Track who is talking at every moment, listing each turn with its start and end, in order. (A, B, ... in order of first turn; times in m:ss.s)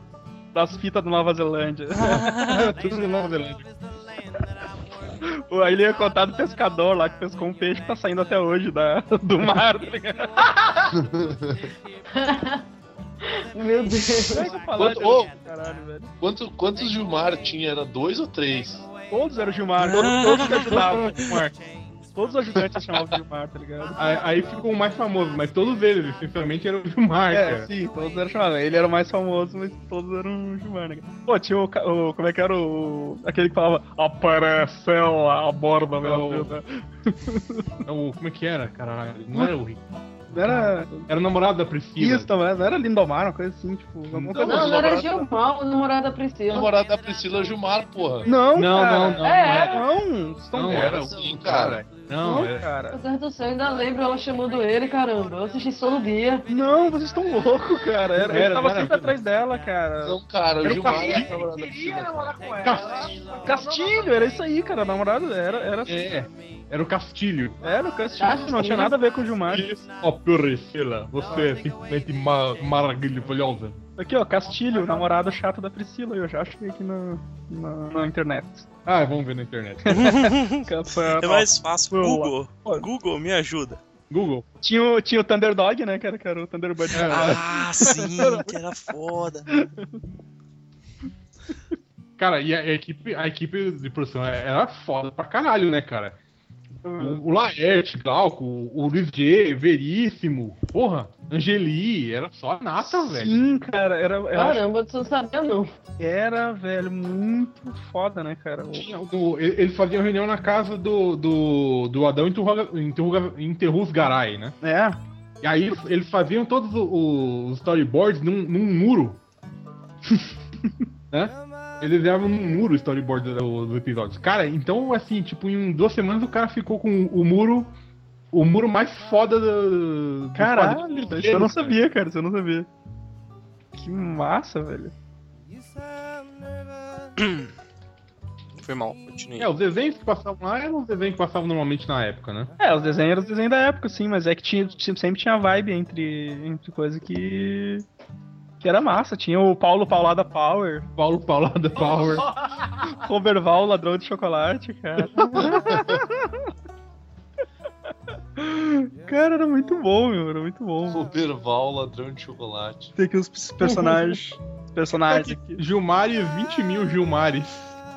0:00.5-0:02.3 A
0:02.0-0:02.6 B
0:02.1-0:03.7 C
0:05.2-0:10.5 A
0:10.9-0:11.6 D
0:12.1-0:12.6 E
0:13.3-0:14.5 E
0:14.3-0:16.1 A
0:14.7-0:15.3 D
0:16.2-0:18.8 D
0:19.1-0:21.3 A
0:19.8-0:20.8 B
0:19.9-0:21.5 C
0:22.1-0:24.0 A
0:24.0-0:27.7 C
0:27.3-0:37.7 A
0:36.0-0:36.6 C
0:37.8-0:42.3 C
0:40.3-0:41.1 A
0:42.0-0:44.8 A
0:44.1-0:44.6 C
0:44.4-0:45.3 D
0:44.4-0:46.7 E
0:46.5-0:48.3 D
0:48.2-0:51.0 A
0:48.5-0:49.8 C
0:49.2-0:49.9 E
0:50.5-0:52.7 C
0:50.6-0:51.8 D
0:52.2-0:53.0 A
0:52.9-0:56.4 E
0:56.5-1:00.2 A
0:58.2-0:59.2 C
1:00.0-1:02.3 D
1:00.6-1:01.3 C
1:00.7-1:04.2 F
1:02.6-1:03.2 C
1:03.4-1:06.0 A
1:05.8-1:07.6 C
1:07.6-1:09.7 A
1:08.2-1:08.9 E
1:08.4-1:08.9 C
1:09.5-1:13.8 C
1:14.0-1:18.7 A
1:18.8-1:20.2 C
1:19.8-1:22.9 A
1:19.9-1:23.8 B
1:24.1-1:24.4 C
1:24.6-1:28.5 A
1:26.9-1:29.5 B
1:26.9-1:27.4 C
1:32.2-1:36.2 C
1:36.8-1:37.2 A
1:37.0-1:43.4 C
1:42.8-1:44.6 A
1:44.3-1:45.7 E
1:46.0-1:48.9 A
1:48.7-1:54.6 C
1:54.6-1:55.0 A
1:55.4-1:59.2 C
2:01.1-2:07.7 C
2:08.3-2:11.8 C
2:10.3-2:12.7 A
2:13.8-2:14.9 A
2:17.2-2:17.5 B
2:18.6-2:19.5 B
2:19.4-2:22.5 C
2:22.6-2:27.8 A
2:28.6-2:30.9 A
2:31.0-2:32.3 C
2:31.8-2:32.9 F
2:32.8-2:36.5 A
2:35.1-2:35.8 C
2:38.4-2:41.0 A
2:40.9-2:42.9 D
2:43.0-2:45.6 A
2:43.6-2:44.2 C
2:45.0-2:47.8 C